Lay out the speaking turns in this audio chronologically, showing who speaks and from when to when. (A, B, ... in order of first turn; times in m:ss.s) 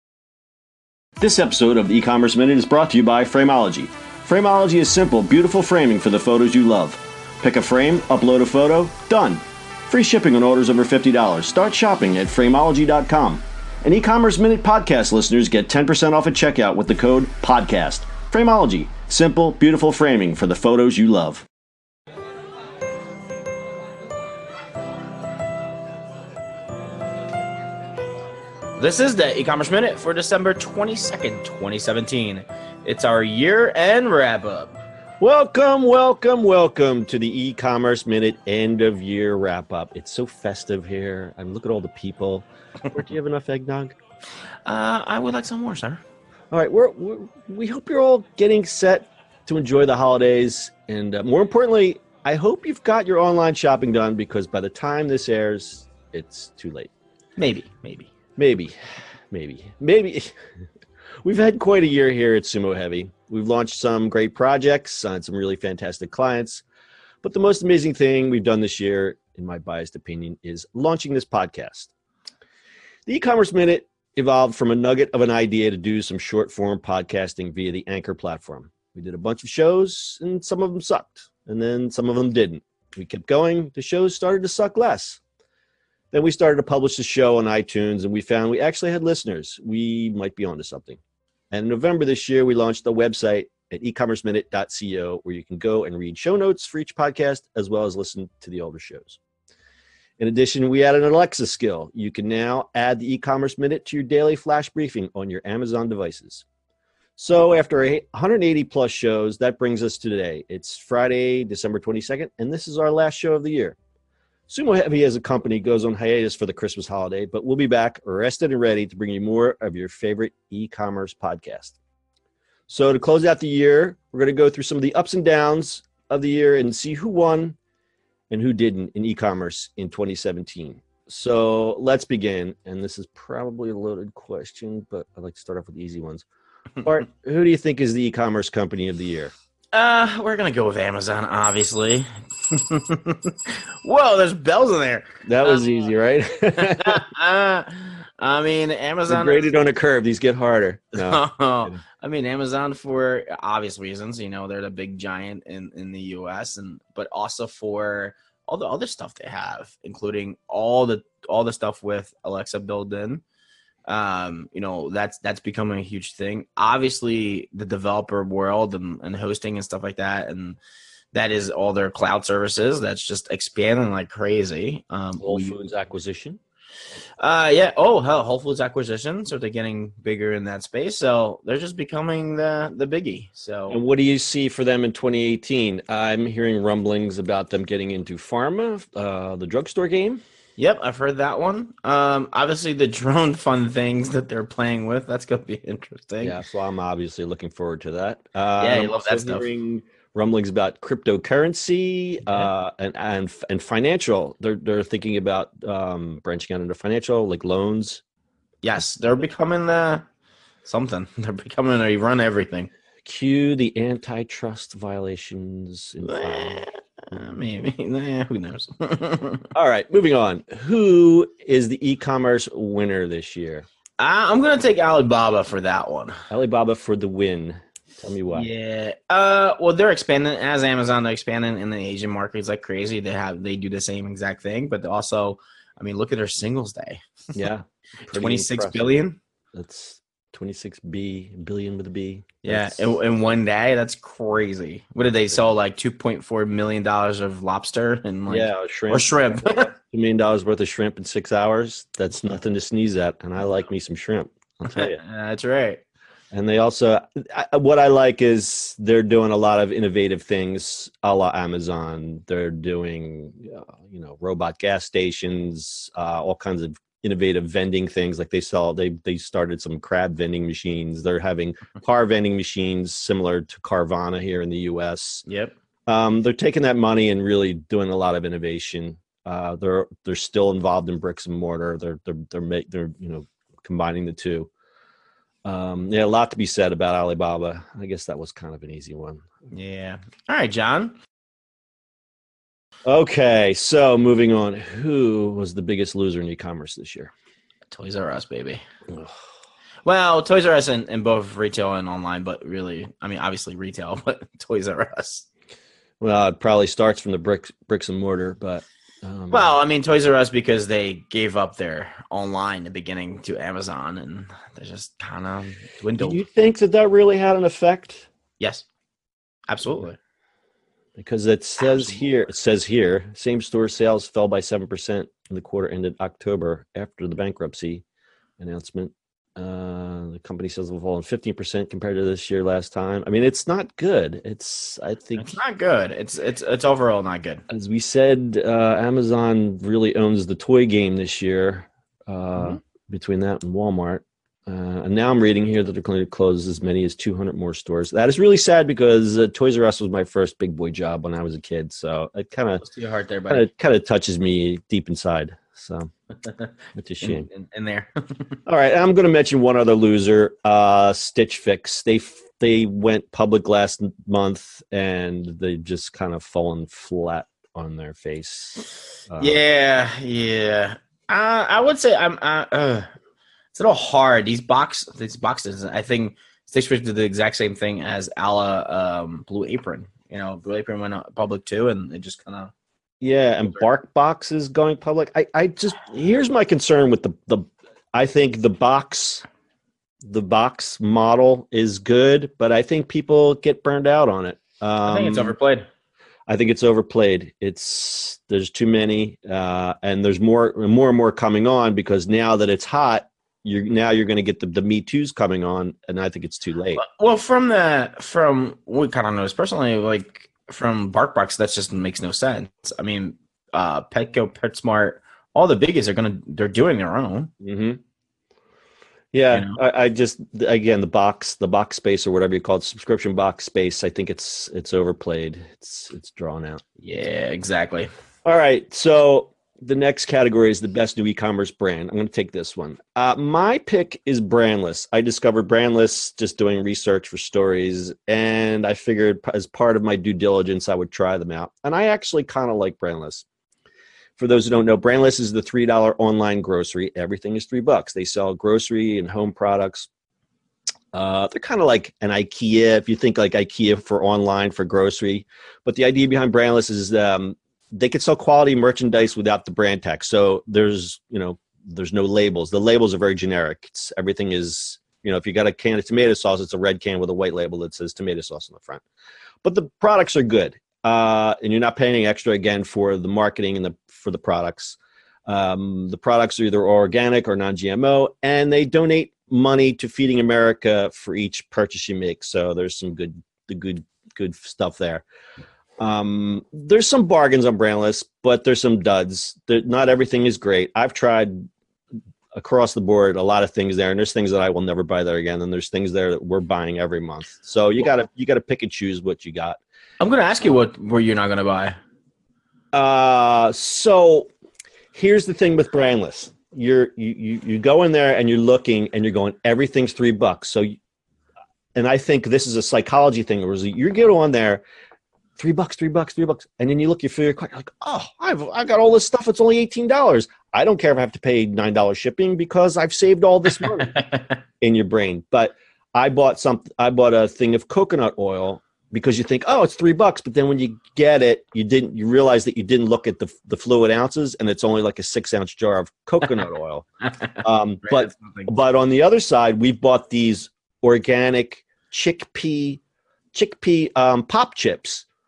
0:01.2-0:21.4 A
0:28.8-0:34.8 B
0:35.2-0:44.0 A
0:44.7-0:46.0 B
0:46.5-0:56.9 A
0:57.4-0:58.1 B
0:58.4-0:58.8 A
0:59.3-1:00.4 A
1:01.2-1:06.6 A
1:07.2-1:11.9 A
1:13.1-1:25.2 A
1:26.1-1:31.0 A
1:31.5-1:39.2 A
1:40.2-1:46.4 A
1:47.2-1:53.8 A
1:54.5-2:01.8 A
2:02.7-2:07.6 A
2:08.3-2:16.2 A
2:16.8-2:19.3 A
2:19.7-2:25.9 B
2:25.2-2:27.0 A
2:26.6-2:29.5 B
2:29.1-2:31.8 A
2:31.0-2:43.2 B
2:43.9-2:50.6 B
2:51.1-2:55.6 B
2:55.2-2:56.4 A
2:57.2-3:03.8 B
3:03.7-3:10.2 A
3:10.6-3:16.4 B
3:16.2-3:28.0 A
3:18.6-3:19.5 B
3:28.6-3:30.1 B
3:30.6-3:32.7 B
3:33.0-3:36.6 A
3:36.0-3:39.5 B
3:39.5-3:43.7 A
3:44.0-3:46.2 B
3:46.3-3:48.5 A
3:48.3-3:57.0 B
3:57.3-3:59.0 A
3:58.1-3:59.2 B
3:59.5-4:03.0 A
4:02.4-4:09.7 B
4:08.3-4:15.0 A
4:14.7-4:15.8 B
4:16.3-4:35.2 A
4:35.2-4:35.5 B
4:35.9-4:44.5 A
4:45.4-4:49.2 A
4:49.5-4:51.0 B
4:52.9-4:57.1 A
4:57.7-4:58.6 B
4:59.8-5:05.3 B
5:06.0-5:09.6 A
5:09.3-5:16.2 B
5:16.0-5:18.1 A
5:18.4-5:18.6 B
5:19.5-5:20.0 B
5:21.0-5:27.8 A
5:21.6-5:22.0 B
5:28.4-5:35.3 A
5:35.2-5:37.4 B
5:37.5-5:52.6 A
5:52.6-5:53.4 B
5:53.3-5:55.9 A
5:56.7-5:57.3 A
5:57.0-5:58.4 B
5:58.4-6:09.4 A
6:09.2-6:12.9 B
6:13.5-6:22.5 B
6:23.0-6:29.2 A
6:30.0-6:35.4 A
6:34.8-6:35.7 B
6:36.3-6:46.8 A
6:46.7-6:57.3 B
6:57.4-6:57.8 A
6:59.1-7:06.6 A
6:59.3-6:59.6 B
7:06.8-7:07.9 B
7:08.2-7:23.2 A
7:24.2-7:29.9 A
7:30.9-7:48.8 A
7:49.4-8:05.0 A
8:05.8-8:11.5 A
8:12.3-8:19.6 A
8:20.0-8:21.8 B
8:22.7-8:24.3 A
8:24.9-8:30.7 A
8:31.7-8:34.6 A
8:35.4-8:44.0 A
8:43.6-8:44.3 B
8:44.6-8:56.9 A
8:57.4-9:02.8 A
8:57.8-8:58.5 B
9:03.3-9:05.1 A